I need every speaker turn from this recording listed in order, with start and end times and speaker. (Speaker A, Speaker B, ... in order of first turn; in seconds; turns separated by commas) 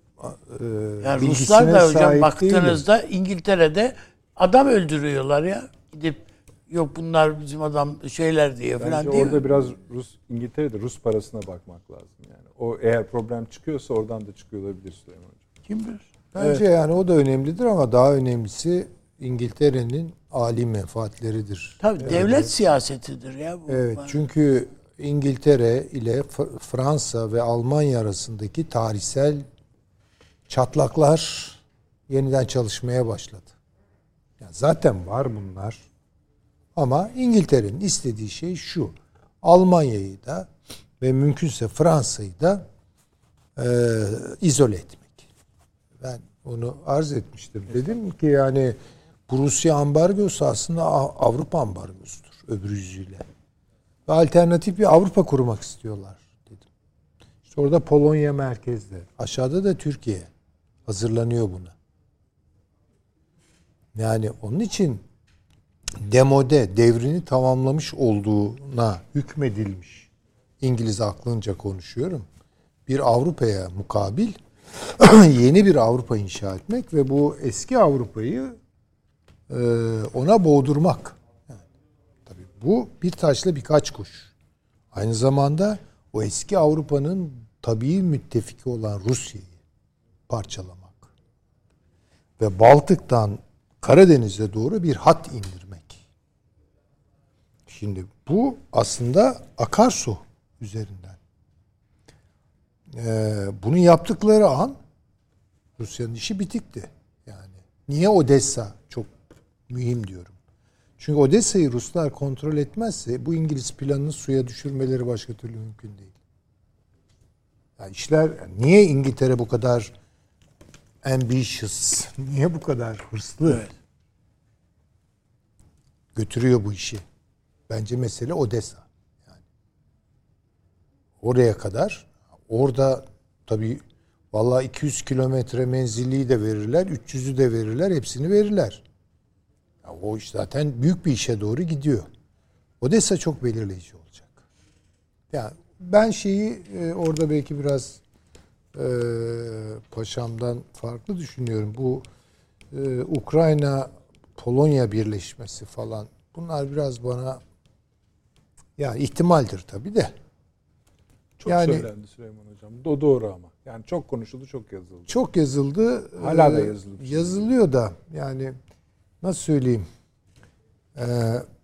Speaker A: 0.2-2.8, Speaker B: 1.0-9.4, Speaker C: 8.8-15.4, Speaker B: 15.7-16.6, Speaker A: 16.3-22.5, Speaker B: 21.8-24.1, Speaker A: 23.7-29.4, Speaker A: 30.5-33.5, Speaker A: 34.4-35.8, Speaker A: 36.8-40.5, Speaker A: 41.0-42.6, Speaker A: 43.5-45.2, Speaker A: 46.0-48.8, Speaker A: 49.3-53.2, Speaker A: 54.1-56.6, Speaker A: 57.5-60.3, Speaker A: 60.9-61.7, Speaker A: 63.9-65.0, Speaker A: 66.0-70.1, Speaker A: 70.6-72.3, Speaker A: 72.9-78.6, Speaker A: 79.5-81.6, Speaker A: 82.2-84.3, Speaker A: 84.9-89.5, Speaker A: 90.3-91.1, Speaker A: 92.4-96.0, Speaker A: 97.7-101.2, Speaker A: 102.9-104.8, Speaker A: 105.8-109.1, Speaker A: 109.7-110.3, Speaker A: 111.0-116.1, Speaker A: 117.8-119.9, Speaker A: 121.0-123.7, Speaker A: 126.1-127.0, Speaker A: 127.7-129.4, Speaker A: 131.2-138.8, Speaker A: 139.8-142.1, Speaker A: 142.8-144.4, Speaker A: 145.3-148.0, Speaker A: 148.7-152.0, Speaker A: 152.7-157.4, Speaker A: 158.8-160.1, Speaker C: 161.4-165.1, Speaker A: 161.4-161.8, Speaker A: 165.1-168.5, Speaker C: 166.2-167.5, Speaker A: 169.2-169.9, Speaker A: 170.9-171.4